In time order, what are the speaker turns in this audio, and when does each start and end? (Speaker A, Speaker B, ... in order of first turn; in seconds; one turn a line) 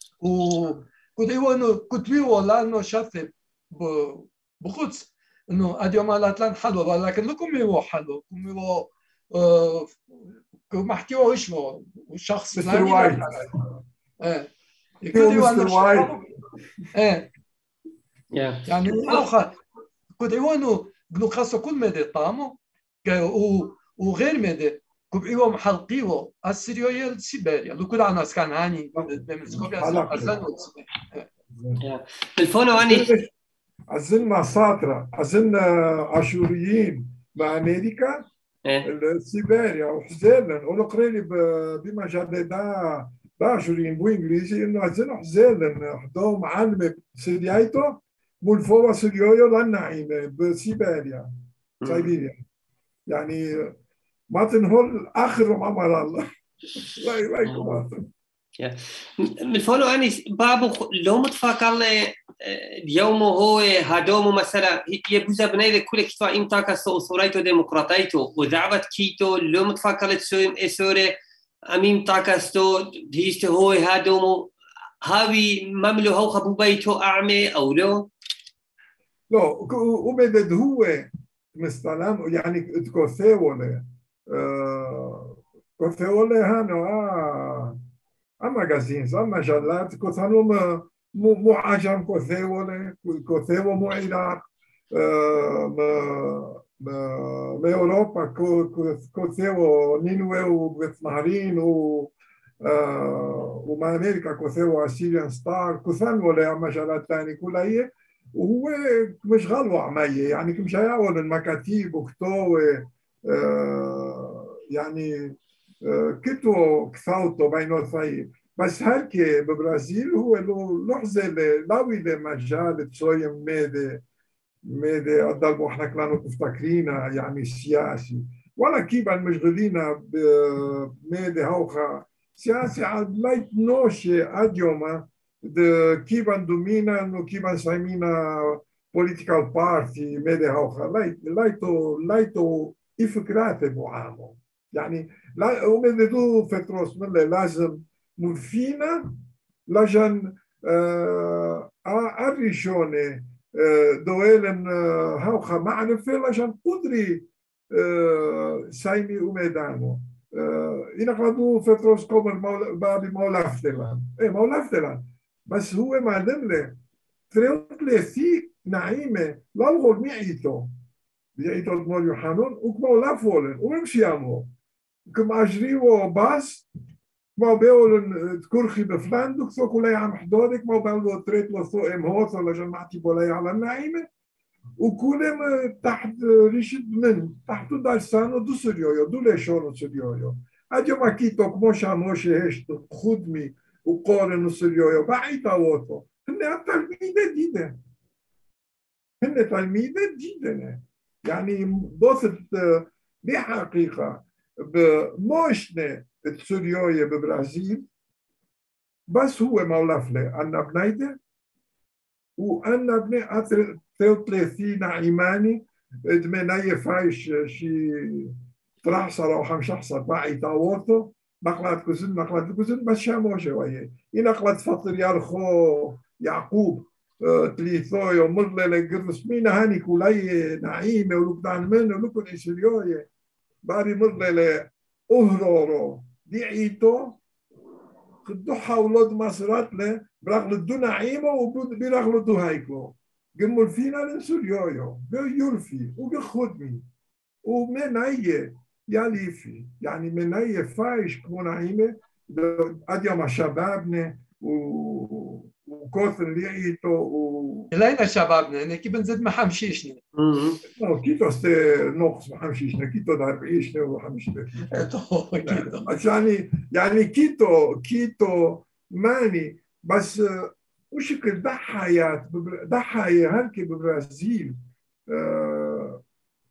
Speaker A: 0.2-10.0
Speaker A: 10.7-13.5
Speaker B: 12.6-13.5
Speaker A: 14.2-14.5
Speaker A: 15.0-16.2
Speaker B: 15.1-16.3
Speaker A: 16.9-17.3
Speaker C: 18.3-19.2
Speaker A: 18.7-19.6
Speaker A: 20.2-31.3
Speaker B: 29.0-30.4
Speaker B: 31.5-31.8
Speaker C: 31.8-33.1
Speaker B: 32.8-33.3
Speaker B: 33.9-38.3
Speaker B: 38.8-51.3
Speaker C: 51.8-52.1
Speaker B: 51.9-52.4
Speaker B: 53.1-53.7
Speaker B: 54.3-56.3
Speaker B: 56.8-58.0
Speaker C: 57.5-57.8
Speaker C: 58.6-71.2
Speaker C: 71.7-78.1
Speaker B: 79.3-87.8
Speaker B: 88.4-124.0
Speaker B: 124.7-149.1
Speaker B: 149.7-166.8
Speaker B: 167.3-170.7
Speaker B: 171.4-174.5
Speaker B: 175.1-176.7
Speaker B: 177.4-184.1
Speaker B: 184.8-197.8
Speaker B: 199.2-207.8
Speaker B: 209.1-211.2
Speaker B: 212.4-233.1
Speaker B: 233.6-237.2
Speaker B: 238.2-246.8
Speaker B: 247.4-257.7
Speaker A: 257.7-260.0
Speaker C: 260.2-260.6
Speaker B: 260.7-264.9
Speaker A: 264.7-265.9
Speaker B: 265.4-274.6
Speaker B: 275.1-276.0